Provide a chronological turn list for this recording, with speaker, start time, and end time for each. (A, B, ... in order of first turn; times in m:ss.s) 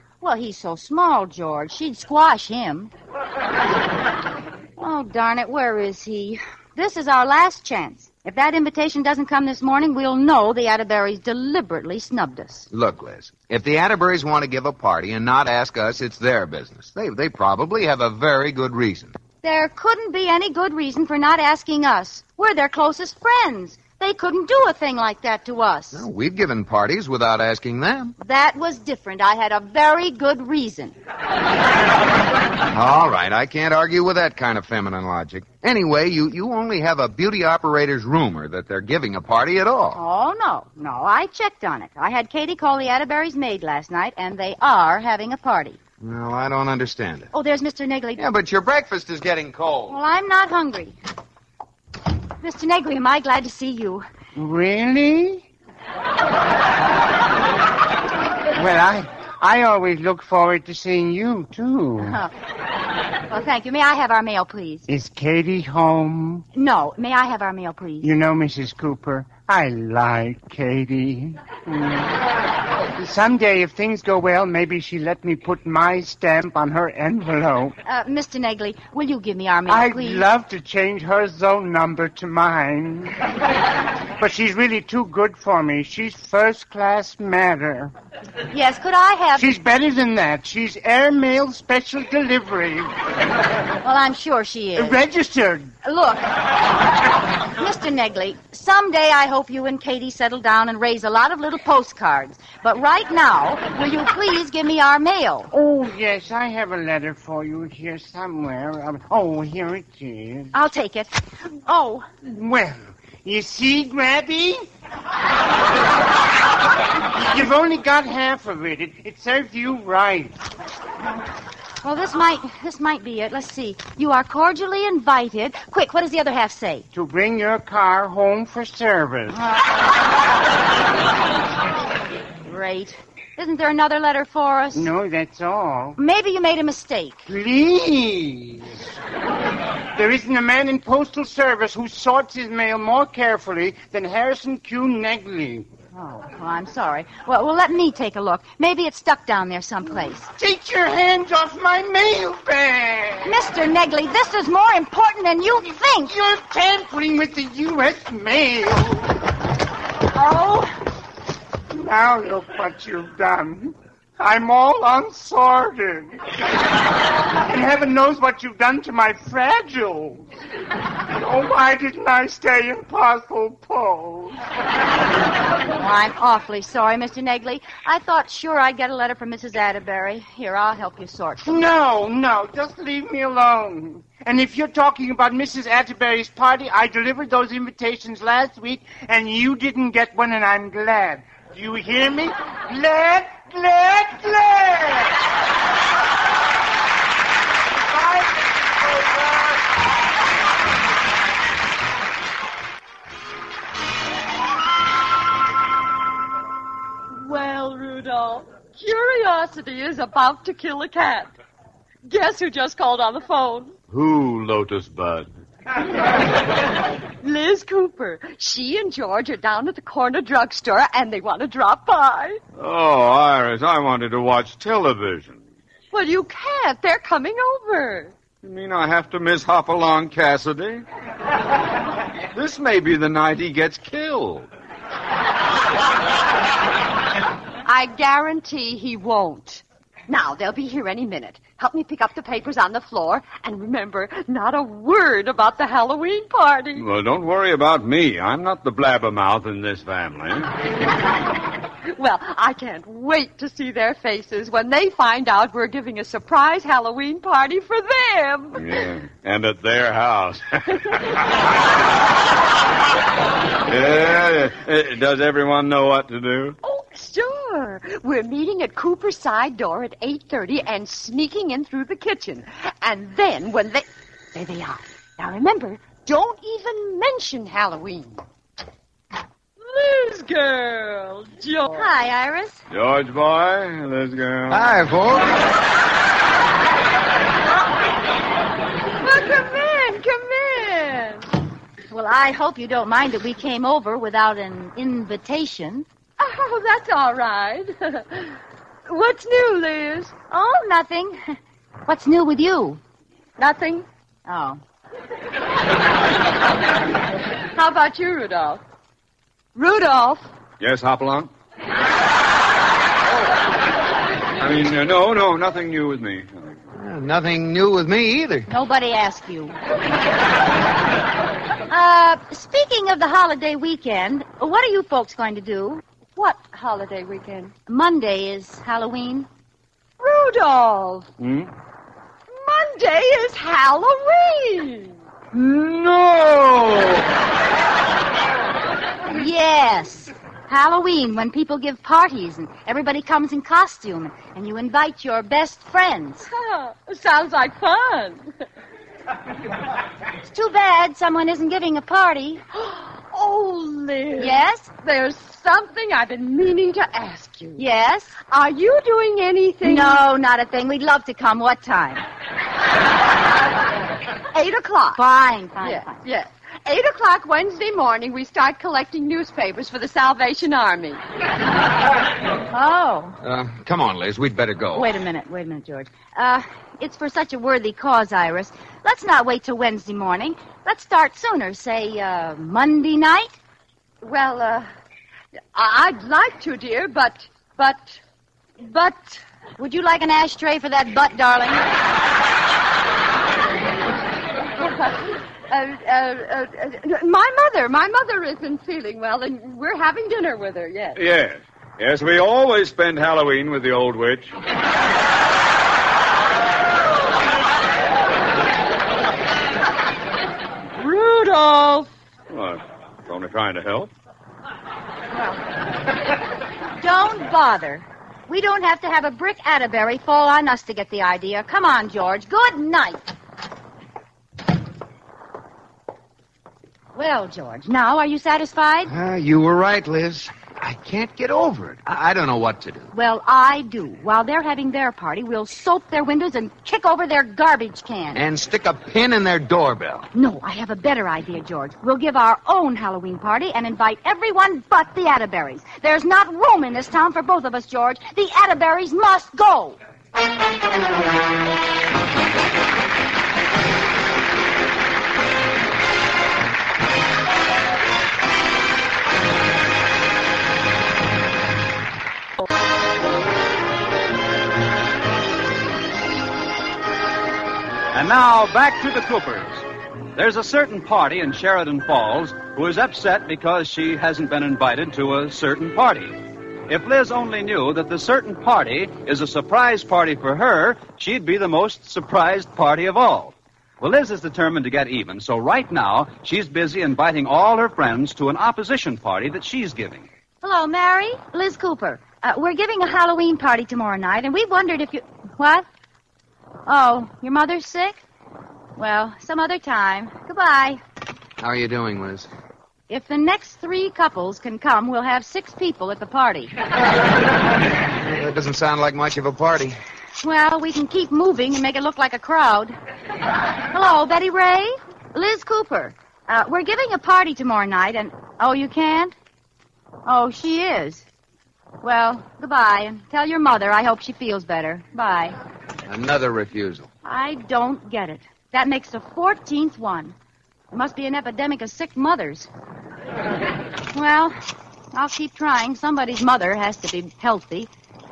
0:00.2-0:02.9 A
0:04.8-0:12.7 A
0:12.7-0:19.1 B
0:19.4-0:26.0 A
0:25.9-0:28.1 B
0:28.2-0:31.0 A
0:32.7-0:40.0 B
0:39.9-0:45.8 A
0:46.0-0:47.3 B
0:47.3-0:48.2 A
0:48.2-0:50.0 B
0:49.9-0:50.9 A
0:52.4-0:54.0 A
0:54.3-0:55.4 C
0:58.5-1:02.2 C
1:02.0-1:02.3 A
1:03.3-1:04.8 A
1:04.9-1:06.4 C
1:06.5-1:08.1 A
1:08.0-1:12.2 C
1:13.0-1:17.8 C
1:17.8-1:20.2 A
1:19.7-1:23.2 C
1:24.2-1:27.9 C
1:28.5-1:29.5 A
1:29.4-1:32.9 C
1:33.8-1:35.0 A
1:34.8-1:35.7 C
1:35.8-1:36.2 A
1:37.6-1:45.5 A
1:45.5-1:50.5 C
1:50.5-1:51.1 A
1:51.7-1:52.0 A
1:52.2-1:54.7 C
1:57.1-2:00.4 C
2:01.8-2:06.8 A
2:06.9-2:09.4 C
2:09.3-2:09.8 A
2:12.4-2:14.9 A
2:14.7-2:16.0 C
2:16.0-2:17.2 A
2:17.3-2:18.8 C
2:19.9-2:25.7 C
2:25.9-2:30.3 A
2:30.4-2:33.3 C
2:33.2-2:36.1 A
2:36.0-2:39.1 C
2:40.1-2:40.7 A
2:41.7-2:46.2 C
2:47.3-2:50.2 C
2:51.1-2:54.4 C
2:55.8-3:01.6 A
3:01.4-3:15.2 C
3:17.8-3:19.6 C
3:27.1-3:31.3 D
3:32.0-3:33.7 D
3:33.9-3:35.3 E
3:37.2-3:42.4 D
3:42.6-3:45.4 E
3:45.9-3:48.1 D
3:48.4-3:50.8 E
3:52.3-3:54.5 E
3:57.6-4:06.8 D
4:06.8-4:10.5 E
4:11.9-4:18.8 D
4:18.5-4:21.2 E
4:23.6-4:26.6 E
4:26.6-4:38.2 D
4:39.6-4:41.9 D
4:41.7-4:42.6 A
4:42.7-4:44.8 E
4:44.5-4:45.3 B
4:49.0-4:51.3 D
4:51.9-4:55.8 A
4:56.2-5:00.1 D
5:00.3-5:01.3 A
5:01.9-5:02.8 A
5:03.4-5:03.8 D
5:04.2-5:04.6 A
5:07.5-5:08.6 D
5:09.5-5:10.3 D
5:10.6-5:11.3 E
5:14.4-5:16.6 E
5:16.7-5:18.5 B
5:18.5-5:19.6 A
5:21.7-5:25.8 A
5:26.2-5:27.5 D
5:27.7-5:29.3 A
5:30.0-5:31.1 D
5:31.2-5:31.5 E
5:32.3-5:35.0 D
5:35.3-5:37.0 E
5:39.1-5:46.3 A
5:46.3-5:48.3 D
5:50.2-5:52.4 A
5:52.5-5:57.6 D
5:54.2-5:54.7 A
5:57.6-5:58.2 A
5:58.3-6:00.0 D
5:59.6-6:02.0 A
6:04.3-6:05.0 D
6:04.9-6:06.0 A
6:05.6-6:11.0 D
6:12.5-6:13.2 A
6:13.2-6:14.9 B
6:14.7-6:23.4 A
6:24.0-6:24.7 D
6:25.5-6:28.0 D
6:28.6-6:29.2 D
6:29.6-6:31.6 A
6:34.6-6:41.0 D
6:40.9-6:44.3 E
6:50.8-6:51.9 D
6:52.3-6:53.9 E
6:55.1-6:55.4 A
6:56.8-7:03.1 A
7:06.9-7:08.9 A
7:08.9-7:12.9 B
7:12.9-7:18.2 A
7:18.1-7:20.1 B
7:20.1-7:29.8 A
7:47.9-8:10.1 F
8:10.4-8:15.6 A
8:16.6-8:18.0 A
8:18.8-8:20.8 A
8:21.4-8:22.3 B
8:22.9-8:26.5 A
8:28.0-8:29.8 B
8:30.2-8:32.8 A
8:33.7-8:39.1 A
8:40.0-8:41.0 A
8:41.8-8:45.4 A
8:45.9-8:46.9 B
8:47.0-8:50.1 A
8:50.7-8:52.5 A
8:53.9-8:54.4 A
8:54.9-8:57.7 A